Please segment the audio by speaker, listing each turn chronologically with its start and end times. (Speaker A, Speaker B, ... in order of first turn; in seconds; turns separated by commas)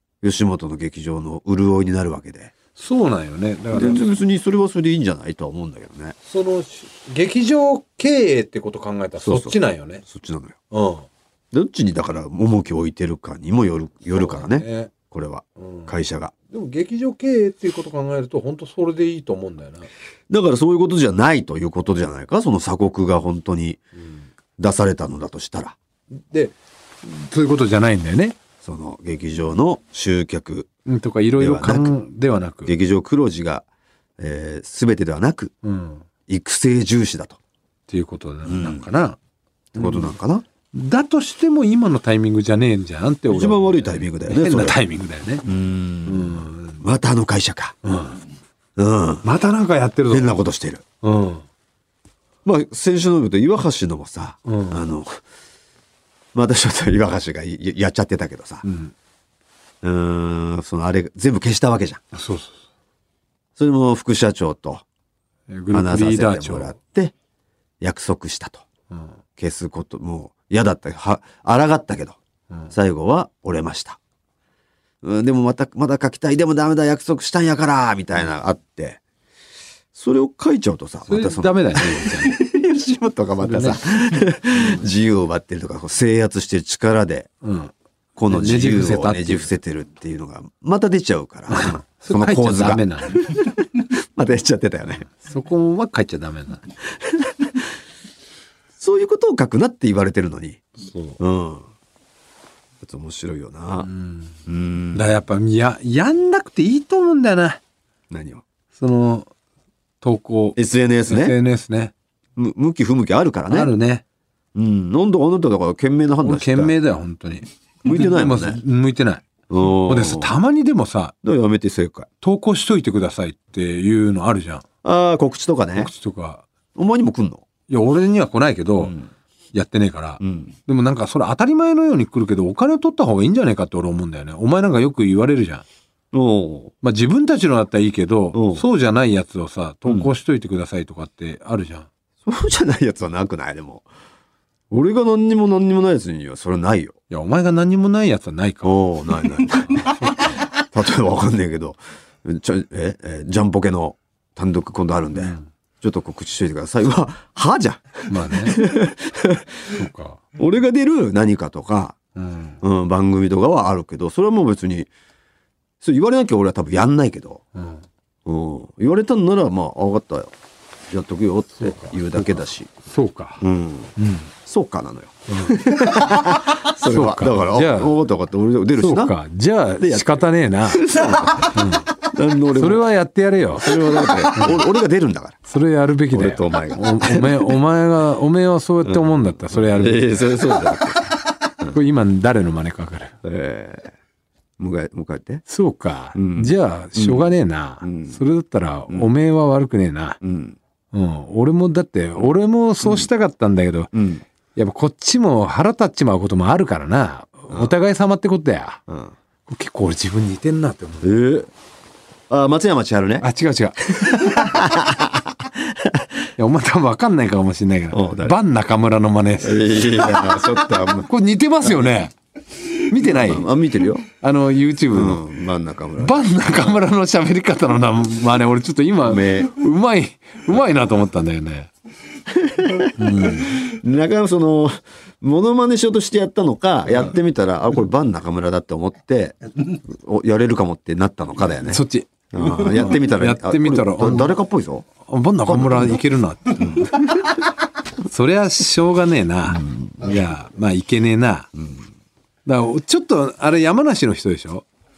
Speaker A: 0.2-2.5, Speaker B: 2.7-4.0, Speaker A: 3.7-6.1, Speaker B: 6.2-10.0, Speaker A: 9.2-10.6, Speaker B: 10.7-11.1, Speaker A: 11.5-16.3, Speaker B: 14.1-14.9, Speaker B: 15.6-15.9, Speaker B: 16.5-19.9, Speaker A: 20.3-23.8, Speaker B: 24.0-24.2, Speaker A: 24.6-25.8, Speaker B: 26.1-28.4, Speaker A: 28.6-30.7, Speaker B: 30.9-32.7, Speaker A: 31.4-31.9, Speaker A: 32.6-33.6, Speaker A: 34.2-35.5, Speaker B: 35.6-36.0, Speaker A: 36.3-37.4, Speaker B: 37.9-39.2, Speaker A: 38.5-38.8, Speaker A: 39.7-40.4, Speaker B: 39.7-40.1, Speaker B: 40.7-45.5, Speaker A: 43.3-44.8, Speaker A: 45.4-47.8, Speaker B: 46.1-46.8, Speaker B: 47.8-48.2, Speaker A: 48.8-49.2, Speaker B: 49.2-50.3, Speaker A: 50.1-50.8, Speaker B: 51.0-51.5, Speaker A: 52.4-55.2, Speaker B: 54.5-54.8, Speaker A: 56.3-58.6, Speaker B: 58.6-58.9, Speaker A: 59.8-62.0, Speaker B: 62.1-62.6, Speaker A: 63.6-64.8, Speaker B: 65.5-66.7, Speaker A: 65.7-67.1, Speaker A: 67.8-68.6, Speaker A: 69.4-72.2, Speaker A: 72.7-74.0, Speaker A: 75.0-79.0, Speaker A: 79.9-87.3, Speaker B: 81.1-82.4, Speaker B: 83.4-84.8, Speaker B: 87.4-87.7, Speaker A: 88.2-95.1, Speaker B: 88.3-89.5, Speaker B: 91.5-93.3, Speaker B: 95.1-96.6, Speaker A: 97.0-97.6, Speaker A: 98.8-100.6, Speaker B: 100.8-101.2, Speaker A: 101.2-101.7, Speaker A: 102.8-103.9, Speaker B: 103.8-104.3, Speaker A: 104.5-105.0, Speaker B: 104.9-107.6, Speaker A: 108.1-108.4, Speaker B: 108.7-109.3, Speaker B: 110.0-111.9, Speaker A: 110.5-111.3, Speaker A: 112.3-113.7, Speaker B: 113.5-114.0, Speaker A: 114.5-116.7, Speaker B: 116.2-121.1, Speaker A: 117.8-118.6, Speaker A: 119.5-120.3, Speaker A: 121.2-122.1, Speaker B: 122.2-124.6, Speaker A: 124.8-125.9, Speaker B: 125.8-126.5, Speaker A: 126.8-127.4, Speaker B: 127.7-128.9, Speaker A: 128.8-129.1, Speaker B: 129.5-135.6, Speaker A: 130.2-130.5, Speaker A: 136.1-136.7, Speaker B: 136.8-141.9, Speaker A: 138.3-138.6, Speaker A: 142.2-143.8, Speaker A: 144.7-146.9, Speaker B: 147.1-150.3, Speaker A: 148.6-150.1, Speaker A: 150.6-159.8, Speaker B: 155.1-155.5, Speaker B: 158.1-158.6, Speaker B: 159.7-160.2, Speaker A: 160.3-161.9, Speaker B: 162.2-162.6, Speaker A: 162.6-164.9, Speaker A: 165.8-167.4, Speaker B: 167.5-167.8, Speaker A: 168.2-170.3, Speaker A: 170.9-172.7, Speaker B: 171.5-173.4, Speaker A: 173.4-173.9, Speaker B: 174.0-174.3, Speaker A: 174.4-179.1, Speaker B: 175.3-178.0, Speaker B: 178.8-182.0, Speaker A: 179.8-182.8, Speaker B: 182.5-184.6, Speaker A: 183.6-185.4, Speaker B: 185.4-191.0, Speaker A: 186.1-187.6, Speaker A: 188.8-191.8, Speaker B: 191.6-193.2, Speaker A: 193.2-193.9, Speaker A: 194.6-195.4, Speaker B: 195.4-200.2, Speaker A: 196.1-197.2, Speaker A: 197.8-198.2, Speaker A: 200.2-200.6, Speaker B: 200.9-203.9, Speaker A: 203.9-204.2, Speaker B: 204.5-208.8, Speaker A: 207.5-207.7, Speaker A: 208.9-209.1, Speaker B: 209.5-211.1, Speaker A: 211.0-211.5, Speaker A: 212.3-213.2, Speaker B: 213.2-214.5, Speaker A: 213.8-216.1, Speaker B: 216.4-220.4, Speaker A: 217.9-218.4, Speaker A: 219.4-221.1, Speaker B: 220.9-222.1, Speaker A: 221.6-221.9, Speaker B: 222.7-223.5, Speaker A: 223.0-224.1, Speaker B: 224.2-225.2, Speaker A: 224.9-226.2, Speaker B: 226.0-231.7, Speaker A: 229.1-229.5, Speaker A: 232.3-244.9, Speaker B: 233.0-233.6, Speaker B: 241.7-244.3, Speaker B: 245.0-247.3, Speaker A: 245.4-246.0, Speaker A: 246.6-247.1, Speaker B: 248.1-251.5, Speaker A: 249.5-250.3, Speaker A: 251.6-251.9, Speaker B: 252.4-254.6